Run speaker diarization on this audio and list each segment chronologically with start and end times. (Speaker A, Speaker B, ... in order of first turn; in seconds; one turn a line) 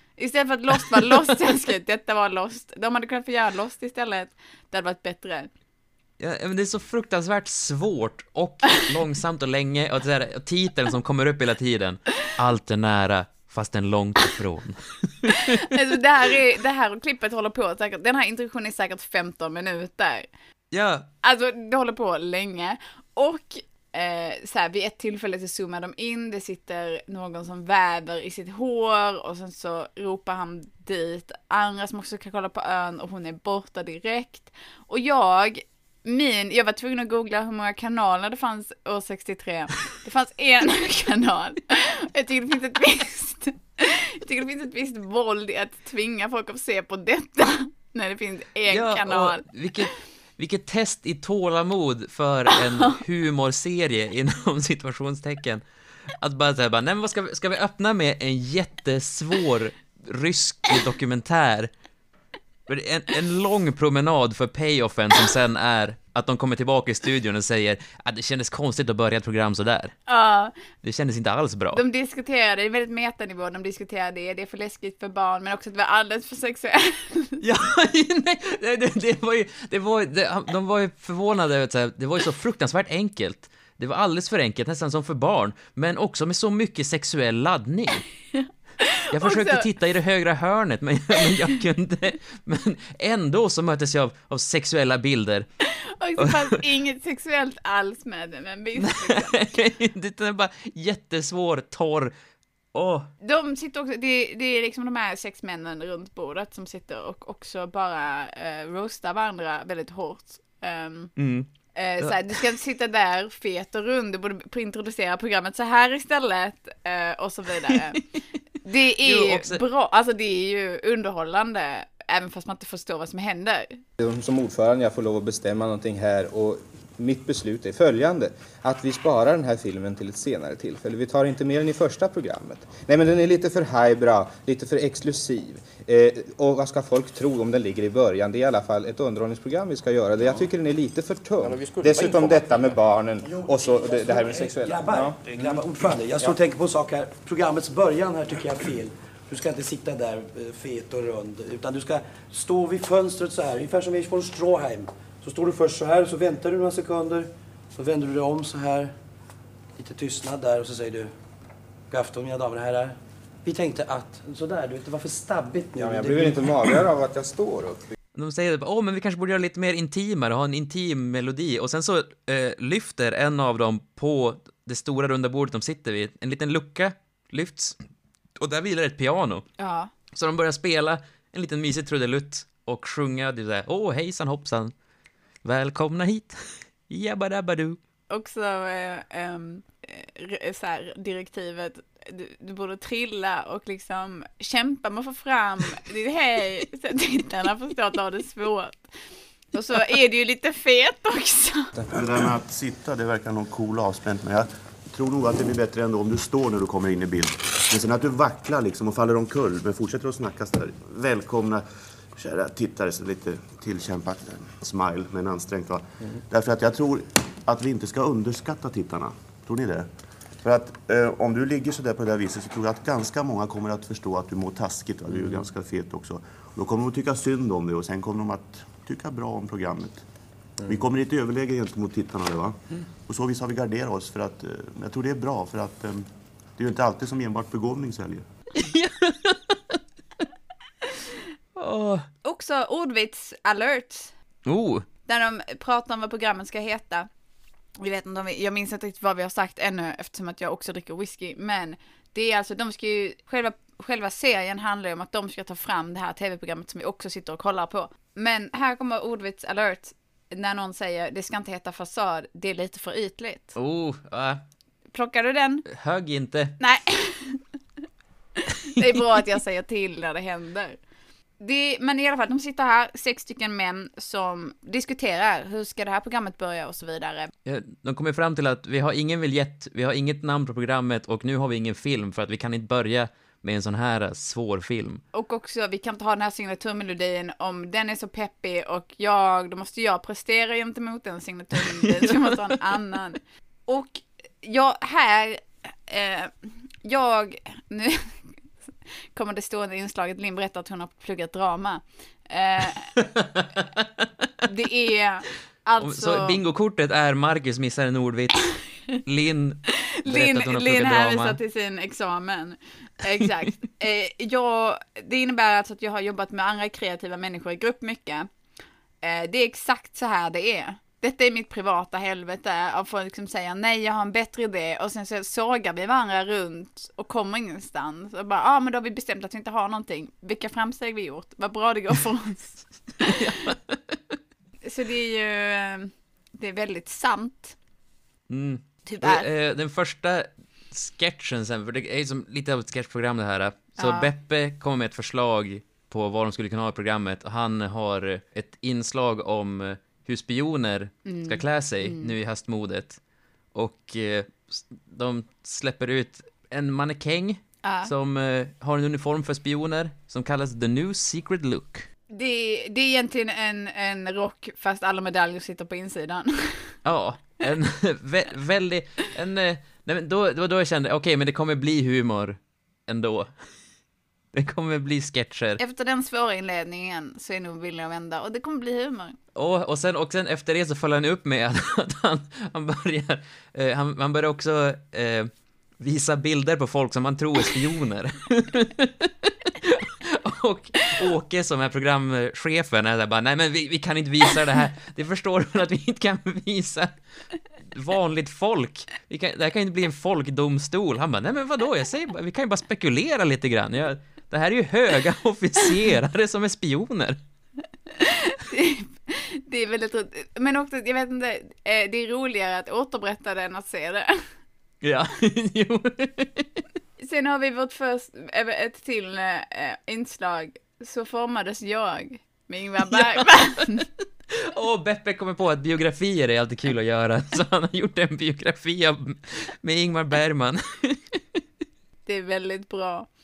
Speaker A: 0.2-5.5
Speaker B: 6.2-15.5
Speaker A: 15.5-20.3
Speaker B: 20.7-21.1
Speaker A: 21.2-49.4
Speaker B: 48.7-55.6
Speaker B: 56.1-61.7
Speaker B: 62.7-70.0
Speaker A: 70.1-70.5
Speaker B: 70.8-71.8
Speaker A: 71.7-77.4
Speaker B: 77.4-88.0
Speaker A: 88.3-89.6
Speaker B: 89.1-95.5
Speaker A: 95.8-99.5
Speaker B: 96.2-96.5
Speaker B: 98.8-102.1
Speaker B: 102.7-103.1
Speaker A: 103.2-111.1
Speaker B: 111.2-111.5
Speaker A: 111.8-118.0
Speaker B: 112.0-112.3
Speaker A: 118.6-123.8
Speaker B: 119.0-119.6
Speaker C: 124.0-145.2
Speaker D: 143.2-158.9
Speaker D: 159.8-161.1
Speaker D: 161.9-166.8
Speaker C: 165.8-167.9
Speaker B: 168.2-177.8
Speaker B: 178.4-179.5
Speaker A: 179.6-179.9
Speaker B: 180.1-184.7
Speaker B: 185.4-186.4
Speaker B: 186.9-187.8
Speaker A: 188.1-198.9
Speaker A: 199.5-201.7
Speaker E: 201.9-230.1
Speaker E: 230.7-238.3
Speaker B: 238.6-239.8
Speaker B: 241.6-242.1
Speaker A: 242.2-244.1
Speaker B: 244.5-244.8
Speaker A: 245.1-247.1
Speaker A: 247.8-263.5
Speaker B: 263.6-264.4
Speaker A: 264.9-265.6
Speaker B: 265.7-266.6
Speaker A: 266.6-267.4
Speaker A: 268.7-270.8
Speaker A: 271.4-277.3
Speaker B: 277.4-285.0
Speaker A: 285.1-298.3
Speaker A: 299.1-302.9
Speaker B: 303.3-303.8
Speaker A: 304.5-306.4
Speaker B: 305.8-311.4
Speaker A: 310.1-318.3
Speaker A: 319.0-333.2
Speaker B: 333.1-333.8
Speaker A: 334.6-337.6
Speaker B: 338.3-353.0
Speaker A: 338.9-339.3
Speaker A: 343.8-344.1
Speaker A: 351.1-352.1
Speaker B: 353.5-361.9
Speaker A: 357.6-357.9
Speaker A: 362.1-366.8
Speaker B: 366.9-373.3
Speaker B: 374.3-375.6
Speaker A: 375.6-379.2
Speaker B: 379.4-396.9
Speaker B: 397.7-407.2
Speaker A: 408.0-414.2
Speaker B: 414.8-416.6
Speaker A: 417.0-423.8
Speaker B: 422.9-423.6
Speaker B: 424.5-431.2
Speaker A: 432.1-433.1